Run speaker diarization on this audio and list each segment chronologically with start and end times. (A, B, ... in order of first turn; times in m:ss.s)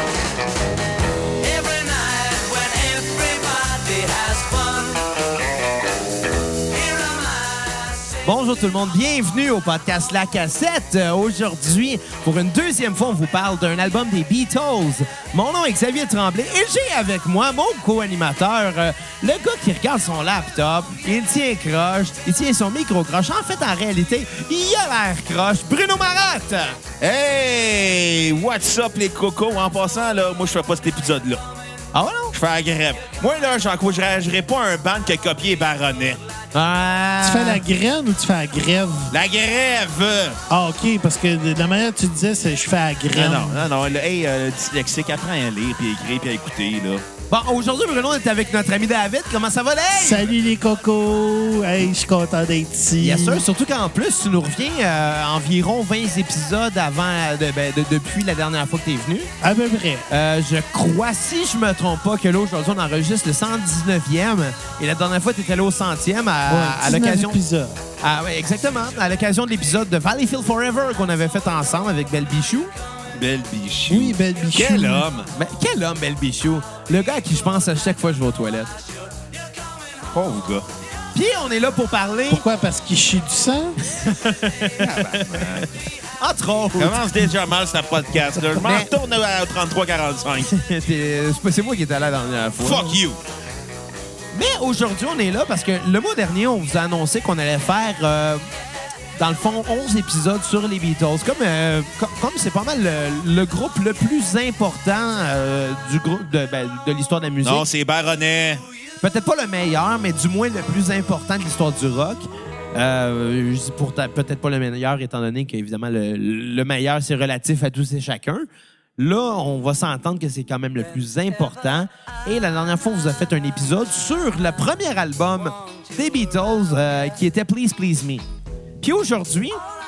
0:01.4-0:05.2 A
0:06.6-0:08.1 A
0:08.2-0:26.8 B
0:27.0-0:31.4 C
0:31.9-0:32.4 B
0:32.3-0:36.2 C
0:36.5-0:37.6 B
0:37.2-0:39.1 D
0:39.1-0:40.4 C
0:40.5-0:43.7 D
0:43.1-0:47.0 C
0:47.3-0:50.3 B
0:49.9-0:53.4 D
0:53.0-0:59.3 B
0:59.4-1:00.1 D
1:00.1-1:07.4 B
1:06.5-1:07.8 D
1:08.0-1:12.7 B
1:13.1-1:15.3 C
1:13.9-1:15.1 D
1:15.3-1:18.8 B
1:20.1-1:20.7 C
1:21.2-1:22.4 B
1:22.3-1:23.8 D
1:23.8-1:27.1 B
1:24.8-1:25.7 C
1:26.8-1:30.5 C
1:28.5-1:28.9 B
1:30.4-1:33.0 B
1:32.6-1:33.2 C
1:34.3-1:38.4 B
1:39.2-1:47.7 B
1:47.4-1:48.6 C
1:49.0-2:08.2 B
2:08.8-2:09.6 B